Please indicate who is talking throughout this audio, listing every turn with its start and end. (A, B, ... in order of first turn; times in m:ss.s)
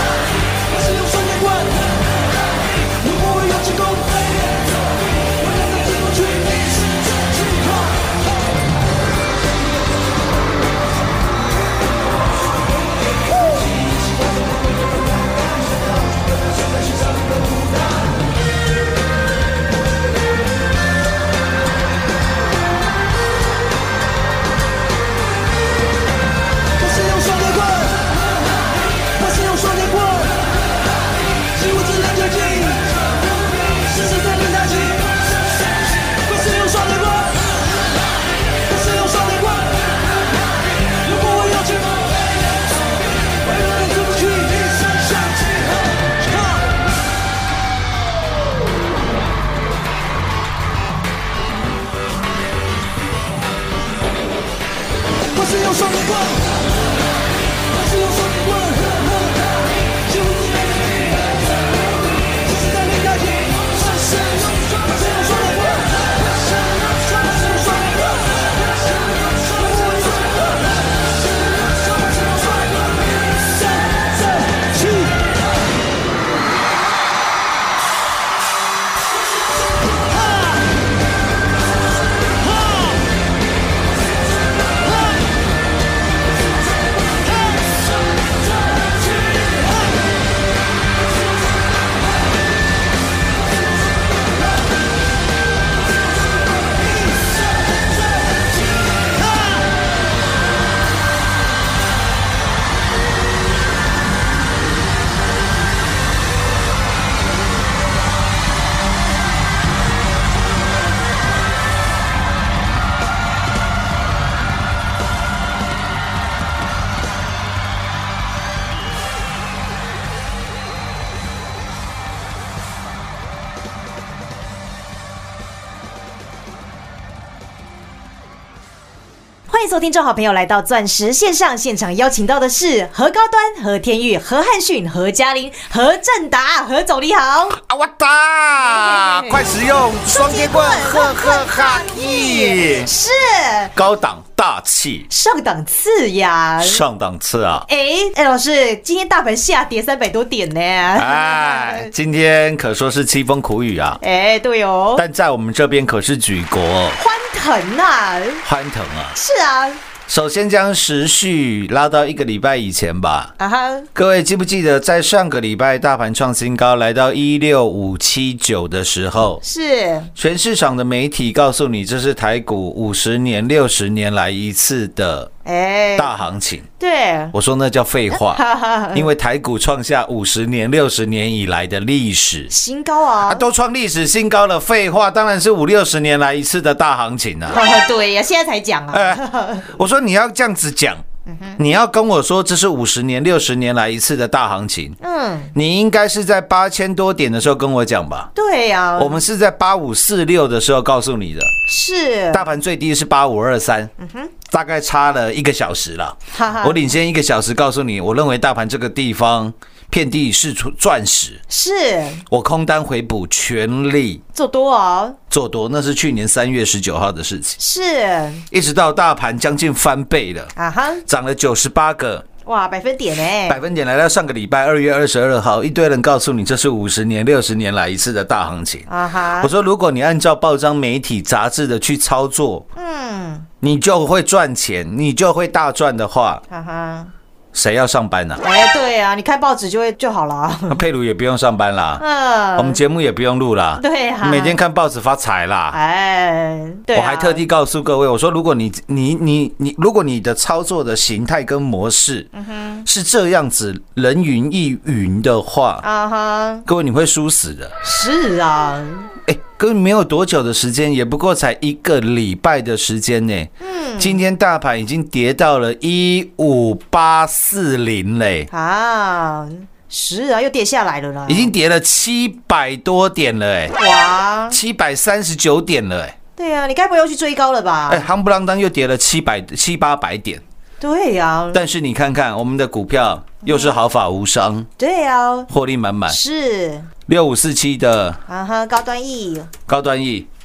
0:00.5-0:08.2 A
0:26.8-0:30.6 A
0:31.5-0:37.5 A
0:38.7-0:40.1 A
0:40.9-0:46.8 A
0:55.3-0:56.6 A
0:57.7-1:01.6 A
1:02.3-1:10.7 A
1:11.4-1:15.2 A
1:20.1-1:20.6 A
1:22.4-1:23.0 A
1:27.2-1:27.9 A
1:28.7-1:30.0 A
2:09.5-2:17.6 B
2:17.6-2:22.9 C
2:18.6-2:23.7 B
2:23.8-2:25.1 C
2:25.1-2:26.8 B
2:26.6-2:27.7 C
2:27.7-2:31.9 B
2:31.0-2:34.0 C
2:34.0-2:35.0 B
2:35.0-2:37.0 C
2:37.0-2:38.4 B
2:38.4-2:39.2 C
2:39.2-2:39.8 B
2:40.1-2:43.3 C
2:43.4-2:43.9 B
2:44.0-2:49.4 C
2:49.4-2:50.1 B
2:50.2-2:55.3 C
2:55.4-2:56.1 B
2:56.0-2:56.7 C
2:56.8-2:57.3 B
2:57.3-3:02.5 C
2:58.1-2:59.1 B
3:02.5-3:03.4 B
3:03.2-3:07.6 C
3:07.5-3:09.7 B
3:08.9-3:11.0 C
3:11.3-3:11.6 B
3:11.6-3:15.0 C
3:15.0-3:15.5 B
3:15.5-3:18.3 C
3:18.4-3:19.2 B
3:19.0-3:21.5 C
3:21.7-3:22.5 B
3:22.3-3:23.9 C
3:24.0-3:24.3 B
3:24.5-3:31.4 C
3:26.3-3:26.8 B
3:31.5-3:32.2 B
3:32.3-3:34.2 C
3:34.4-3:35.2 B
3:35.3-3:37.6 C
3:37.6-3:38.4 B
3:38.5-3:40.5 C
3:40.6-3:41.0 B
3:41.1-3:42.2 C
3:42.5-3:43.6 B
3:43.5-3:52.7 C
3:48.9-3:49.5 B
3:52.8-3:53.5 B
3:53.6-3:56.4 C
3:56.5-3:57.1 B
3:57.5-3:58.4 C
3:58.4-4:00.8 B
4:00.7-4:02.0 C
4:02.0-4:02.8 B
4:02.6-4:05.8 C
4:03.8-4:04.6 B
4:05.7-4:07.4 B
4:06.9-4:12.3 C
4:12.4-4:12.8 B
4:12.8-4:15.8 C
4:15.8-4:16.7 B
4:16.7-4:17.8 C
4:17.8-4:19.1 B
4:19.3-4:28.5 C
4:23.6-4:24.2 B
4:28.5-4:31.5 B
4:31.3-4:33.8 C
4:33.8-4:34.6 B
4:34.5-4:36.2 C
4:36.4-4:38.1 B
4:37.9-4:40.4 C
4:40.8-4:41.6 B
4:41.5-4:44.7 C
4:43.4-4:43.8 B
4:44.8-4:45.5 B
4:45.5-4:46.2 C
4:46.1-4:46.9 B
4:47.1-4:48.2 C
4:48.3-4:49.5 B
4:49.7-4:50.3 C